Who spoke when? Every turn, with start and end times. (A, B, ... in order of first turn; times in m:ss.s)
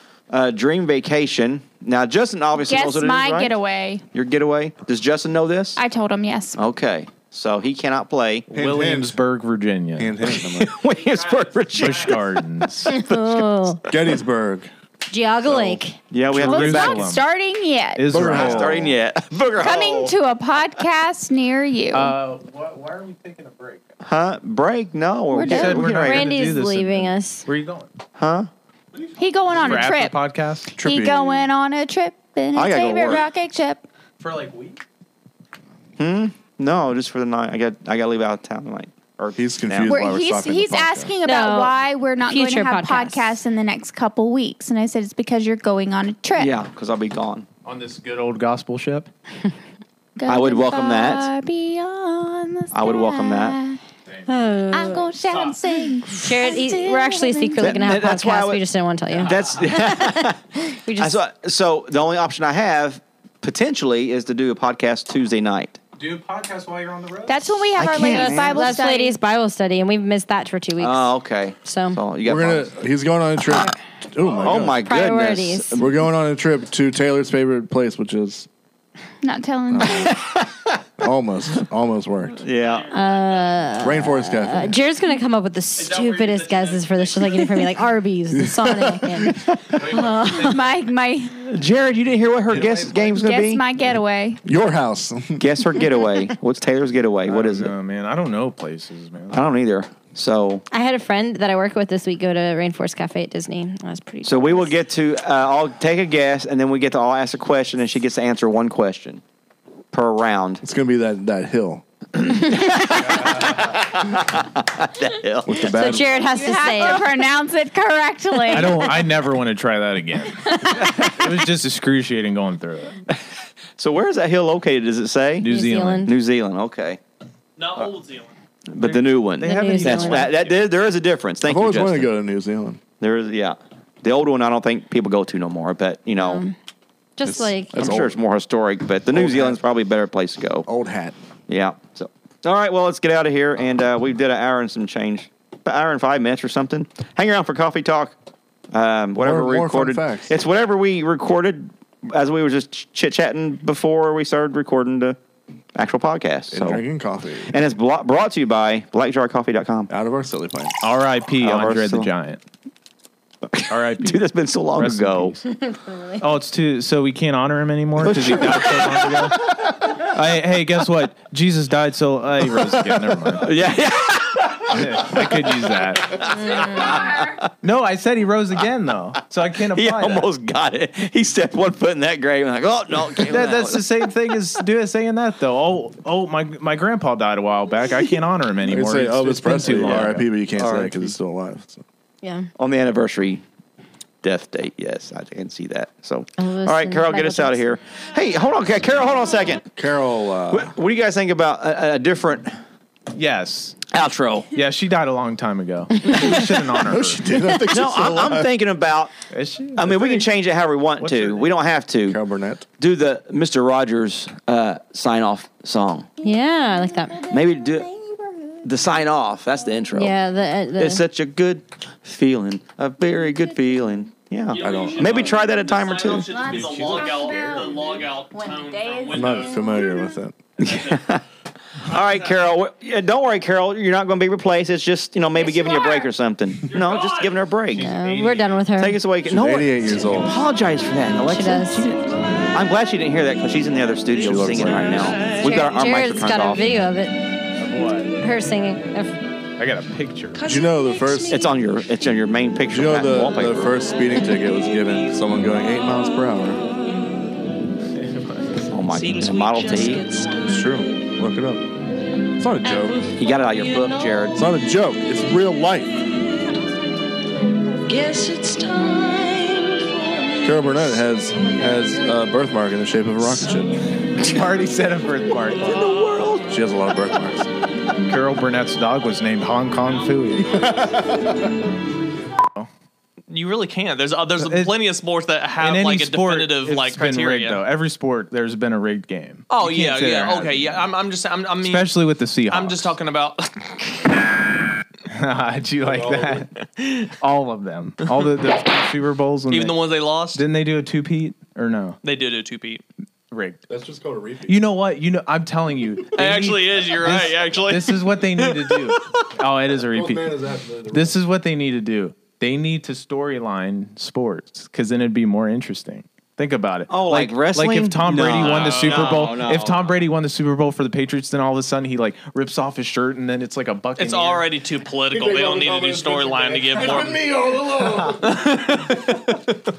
0:00.3-0:03.5 A
0:02.6-0:04.0 B
0:04.1-0:05.8 A
0:05.8-0:06.6 B
0:06.6-0:08.5 A
0:08.5-0:10.2 C
0:08.5-0:09.2 D
0:10.0-0:10.8 D
0:10.4-0:14.0 A
0:11.7-0:13.0 C
0:12.9-0:13.8 E
0:13.9-0:14.7 D
0:15.1-0:16.0 E
0:15.5-0:15.8 C
0:16.1-0:17.0 A
0:16.3-0:17.2 C
0:16.4-0:18.6 B
0:18.0-0:18.8 C
0:18.1-0:18.9 D
0:18.3-0:20.2 A
0:19.6-0:22.2 B
0:21.9-0:23.9 C
0:24.0-0:26.3 A
0:25.3-0:25.9 B
0:25.4-0:27.9 C
0:26.0-0:27.5 E
0:28.2-0:28.5 A
0:28.9-0:30.7 C
0:29.2-0:30.2 B
0:30.7-0:33.8 B
0:30.8-0:31.5 D
0:32.5-0:33.2 A
0:34.2-0:34.8 C
0:36.0-0:40.0 A
0:39.4-0:41.1 D
0:39.9-0:46.5 B
0:41.2-0:43.3 E
0:46.4-0:47.4 A
0:47.6-0:49.1 C
0:50.2-0:53.8 B
0:50.2-0:51.3 A
0:52.7-0:53.6 A
0:54.1-0:54.4 C
0:54.3-0:55.1 E
0:54.7-0:58.0 B
0:55.3-0:55.6 C
0:56.2-1:01.2 E
0:57.6-0:58.6 A
0:59.2-0:59.7 C
0:59.2-1:00.4 A
1:01.0-1:05.8 A
1:06.0-1:07.6 C
1:07.3-1:09.2 B
1:07.8-1:08.7 A
1:08.5-1:12.0 E
1:10.8-1:12.7 A
1:12.2-1:18.5 D
1:13.4-1:13.7 E
1:14.3-1:15.8 A
1:14.8-1:15.9 E
1:19.2-1:20.2 B
1:19.7-1:20.2 D
1:20.0-1:20.8 A
1:21.0-1:22.4 D
1:22.4-1:22.9 A
1:22.6-1:23.6 F
1:22.9-1:30.6 E
1:23.8-1:24.8 D
1:25.8-1:27.6 F
1:28.3-1:29.3 D
1:29.8-1:30.8 C
1:30.4-1:31.4 B
1:31.4-1:33.6 A
1:32.5-1:33.0 D
1:33.1-1:34.4 B
1:34.4-1:35.7 D
1:35.4-1:37.7 A
1:37.2-1:39.4 C
1:39.3-1:40.6 A
1:40.7-1:44.8 E
1:44.2-1:49.2 A
1:49.9-1:50.6 A
1:50.6-1:51.8 D
1:52.1-1:55.7 A
1:53.2-1:53.5 C
1:55.4-1:56.1 D
1:55.7-1:57.1 E
1:56.2-1:59.1 B
1:58.5-2:02.9 C
2:03.8-2:05.5 A
2:05.4-2:06.1 C
2:05.4-2:06.1 E
2:06.0-2:07.0 A
2:07.6-2:09.1 F
2:08.7-2:12.1 A
2:09.4-2:10.3 E
2:09.7-2:10.4 C
2:10.2-2:10.6 F
2:11.4-2:12.8 D
2:13.0-2:16.4 A
2:16.2-2:16.5 E
2:17.2-2:17.8 E
2:17.2-2:18.2 D
2:17.8-2:20.7 A
2:19.1-2:19.6 D
2:20.6-2:21.2 D
2:21.5-2:28.1 A
2:28.7-2:35.2 A
2:29.2-2:30.4 D
2:35.7-2:36.8 A
2:36.5-2:37.5 D
2:37.5-2:39.9 A
2:39.9-2:40.8 D
2:40.8-2:42.4 C
2:41.4-2:42.1 A
2:43.4-2:45.4 A
2:43.7-2:44.2 C
2:44.7-2:45.4 C
2:45.5-2:46.3 E
2:46.2-2:49.4 C
2:48.0-2:49.3 A
2:50.0-2:53.7 C
2:52.9-2:57.5 A
2:54.7-2:56.2 C
2:56.4-2:57.1 E
2:57.6-3:00.3 C
2:59.6-3:04.3 A
3:03.2-3:10.3 C
3:08.6-3:11.8 D
3:09.8-3:11.1 A
3:12.2-3:12.5 E
3:12.6-3:13.4 A
3:14.2-3:19.7 A
3:16.4-3:17.6 E
3:19.8-3:20.7 D
3:20.5-3:22.6 A
3:23.1-3:23.8 C
3:23.9-3:24.5 A
3:24.5-3:27.2 C
3:26.8-3:28.5 D
3:27.6-3:29.2 A
3:29.3-3:30.3 C
3:29.7-3:32.2 A
3:31.0-3:31.5 C
3:32.0-3:32.6 D
3:32.8-3:36.1 A
3:36.2-3:37.2 E
3:37.3-3:37.9 A
3:37.3-3:38.6 B
3:38.6-3:40.2 A
3:39.9-3:41.0 E
3:40.8-3:46.3 A
3:44.5-3:49.6 F
3:44.6-3:45.4 D
3:46.1-3:50.1 B
3:46.4-3:48.0 C
3:49.1-3:50.4 D
3:50.6-3:51.2 A
3:50.6-3:51.0 F
3:51.8-3:57.9 A
3:51.9-3:52.4 F
3:55.3-3:56.1 B
3:56.7-3:57.4 F
3:57.7-3:58.6 C
3:57.8-3:59.0 E
3:58.8-4:06.7 A
3:59.2-4:00.4 D
4:01.3-4:01.9 E
4:04.1-4:05.2 D
4:04.4-4:04.9 C
4:05.2-4:07.3 E
4:07.6-4:08.2 C
4:08.2-4:09.2 E
4:09.6-4:10.4 C
4:10.3-4:11.2 G
4:10.4-4:11.4 D
4:11.3-4:13.8 A
4:12.7-4:16.6 D
4:17.9-4:18.7 C
4:18.7-4:20.2 A
4:18.9-4:21.0 G
4:20.4-4:21.6 D
4:22.4-4:23.1 D
4:23.2-4:24.4 A
4:24.3-4:26.2 D
4:27.9-4:30.6 G
4:30.4-4:33.8 D
4:33.3-4:33.6 G
4:34.1-4:36.1 C
4:35.6-4:36.4 F
4:35.7-4:36.4 A
4:36.3-4:37.5 D
4:38.0-4:40.8 C
4:40.4-4:41.4 D
4:43.3-4:47.6 F
4:44.4-4:44.8 C
4:45.6-4:50.8 C
4:49.5-4:51.9 F
4:51.6-4:53.0 C
4:52.5-4:53.5 F
4:55.1-4:56.5 C
4:55.8-4:56.4 D
4:56.6-4:57.1 F
4:57.2-4:59.8 C
4:59.5-5:00.4 F
5:00.3-5:02.0 C
5:02.0-5:02.8 F
5:03.3-5:03.6 C
5:03.7-5:04.6 D
5:04.4-5:10.3 C
5:06.2-5:08.8 F
5:09.9-5:11.2 D
5:10.9-5:24.4 C
5:16.9-5:20.0 A
5:18.2-5:19.5 F
5:24.0-5:27.2 F
5:25.1-5:28.3 D
5:27.8-5:28.3 C
5:28.1-5:29.5 F